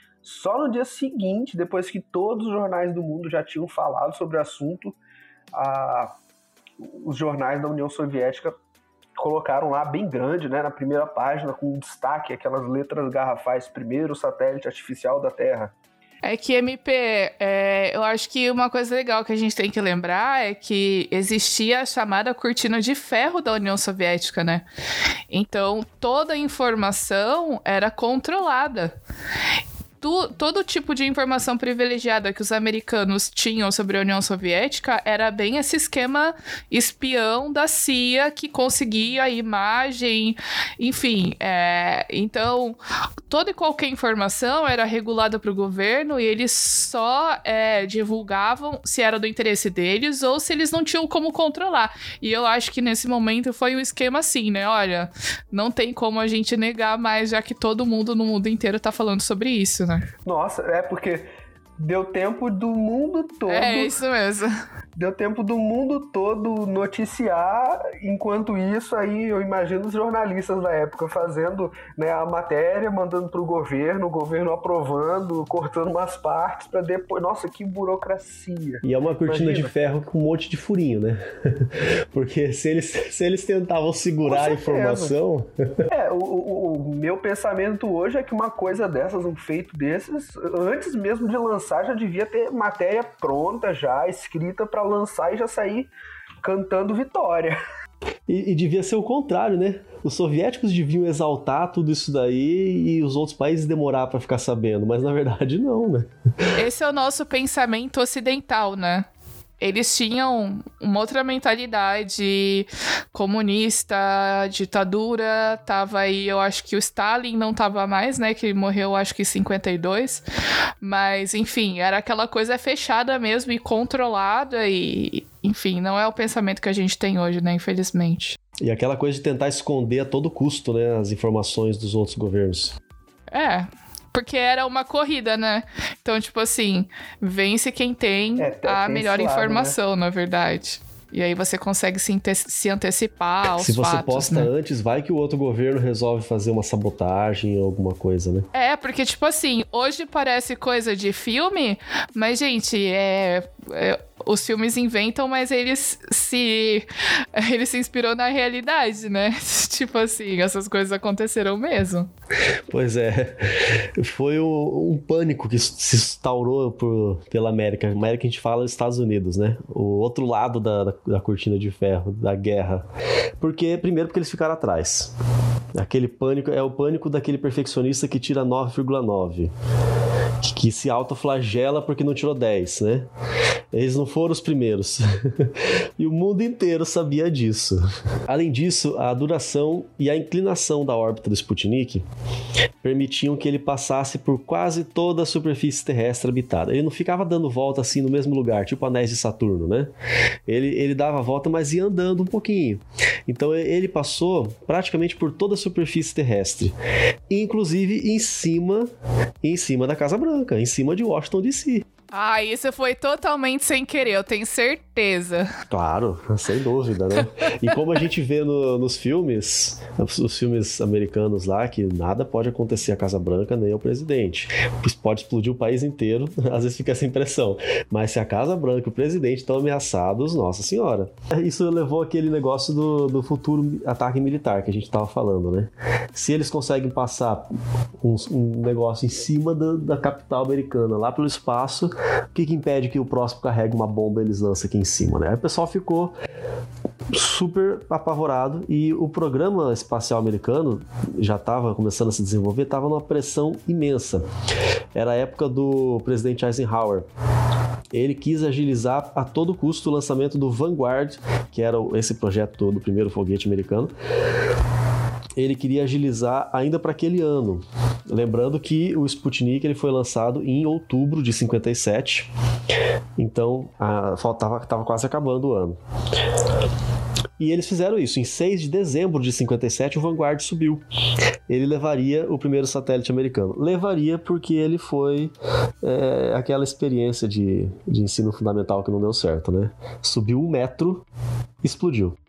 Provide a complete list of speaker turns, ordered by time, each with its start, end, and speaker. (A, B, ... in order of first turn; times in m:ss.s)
0:00.2-0:05.0 A
0:05.5-0:06.1 A
0:06.8-0:08.5 A
0:09.2-0:15.7 A
0:16.2-0:24.6 B
0:25.3-0:28.9 B
0:30.0-1:00.0 B
1:00.2-1:03.9 A
1:03.5-1:04.5 B
1:05.0-1:19.7 A
1:18.8-1:25.5 C
1:24.2-1:25.2 A
1:25.9-1:35.9 A
1:36.4-1:37.6 A
1:38.3-1:46.1 C
1:46.5-1:49.1 B
1:49.6-2:00.2 B
2:00.8-2:08.4 B
2:08.6-2:12.8 C
2:13.3-2:24.5 B
2:18.4-2:19.8 A
2:23.6-2:28.5 C
2:28.5-2:42.1 B
2:42.7-2:52.8 C
2:53.4-2:55.1 C
2:55.7-2:59.5 C
3:00.4-3:03.1 C
3:03.7-3:12.0 C
3:12.8-3:19.9 C
3:20.5-3:26.8 C
3:27.3-3:28.9 C
3:29.4-3:31.8 C
3:32.1-3:35.5 B
3:35.7-4:06.1 C
4:07.1-4:14.3 C
4:14.9-4:17.1 C
4:17.9-4:23.9 C
4:25.4-4:32.3 C
4:33.2-4:35.8 C
4:37.4-4:40.8 C
4:41.5-4:51.0 C
4:51.6-4:52.2 C